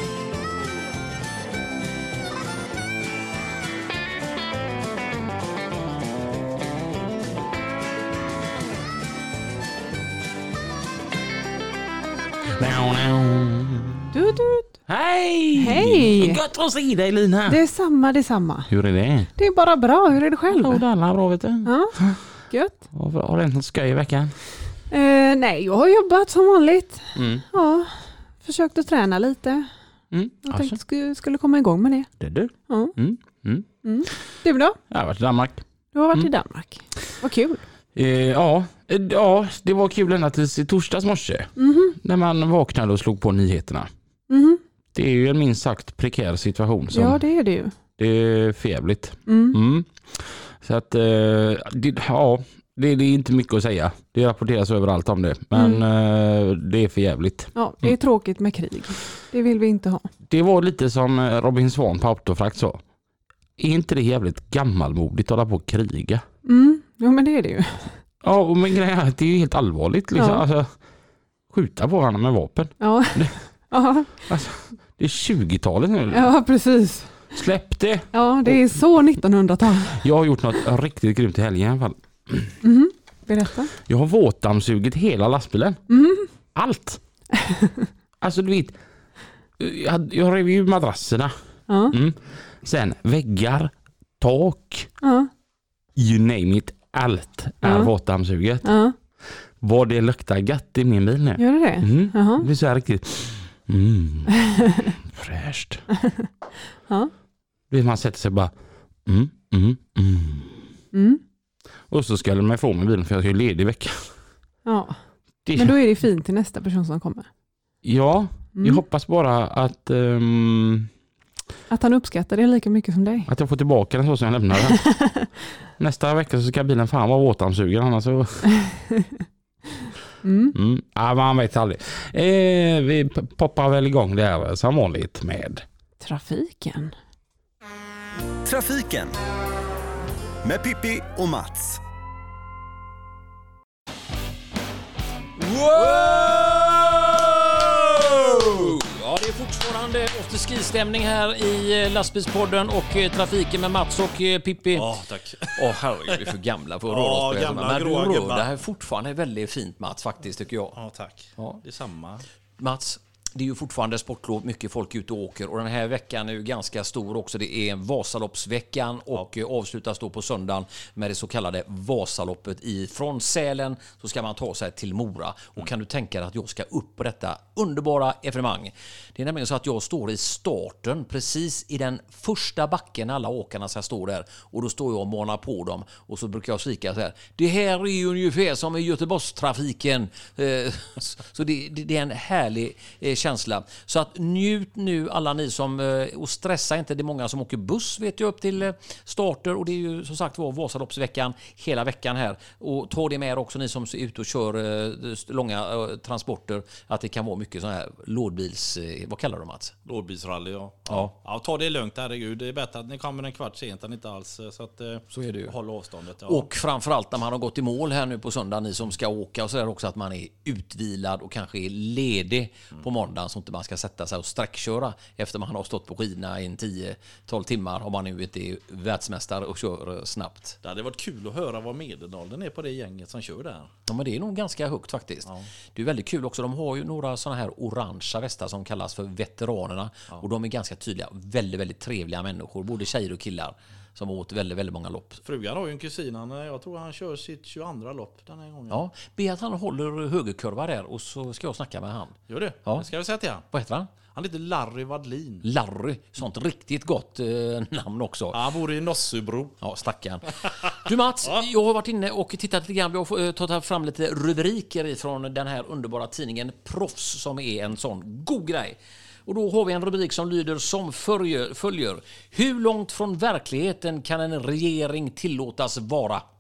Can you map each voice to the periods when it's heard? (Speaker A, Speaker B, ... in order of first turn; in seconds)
Speaker A: 12.6-14.1, 14.9-17.6, 18.7-19.3, 20.5-22.2, 22.9-24.4, 27.1-27.4, 30.1-30.8, 32.2-33.7, 34.9-36.3, 38.0-43.9, 45.0-47.2, 48.0-58.0, 60.3-62.8, 63.6-66.2, 68.2-70.7, 71.5-73.3, 74.2-76.3, 77.3-78.6, 79.9-82.6, 83.8-85.8, 86.5-87.0, 88.2-88.8, 89.6-91.3, 91.9-94.9, 96.0-98.8, 99.6-105.8, 107.7-108.5, 109.1-110.7, 111.9-114.1, 115.5-115.8, 117.8-120.9, 123.3-124.8, 125.8-128.5, 130.5-135.7
Speaker B: 14.1-14.8, 15.5-16.4, 17.5-18.7, 19.4-20.8, 21.6-22.0, 22.5-22.8, 24.9-29.7, 30.4-32.1, 32.7-33.0, 33.8-34.8, 35.9-37.6, 41.6-42.0, 44.3-44.6, 46.9-47.8, 49.3-49.6, 55.5-55.8, 57.5-60.1, 66.5-67.9, 70.2-70.4, 72.8-74.2, 76.1-77.2, 78.1-80.1, 82.6-83.7, 85.9-86.3, 87.4-87.9, 91.7-92.0, 95.0-95.3, 97.6-97.9, 98.6-99.0, 101.4-102.5, 106.0-106.3, 110.9-111.2, 114.7-115.0, 115.6-117.3, 118.5-118.8, 121.7-123.3, 124.7-125.3, 130.2-130.6, 136.0-136.9
Speaker C: 138.4-139.2, 140.4-141.8
Speaker D: 145.4-154.9, 155.6-160.8, 162.6-209.7, 215.1-215.5, 216.3-230.6, 233.9-245.2, 248.7-252.9, 253.5-253.9, 255.4-258.4, 259.6-276.2
Speaker E: 154.7-156.3, 156.9-158.5, 160.8-162.2, 209.8-216.5, 230.6-233.7, 245.2-248.8, 252.3-253.5, 254.1-255.4, 258.3-259.6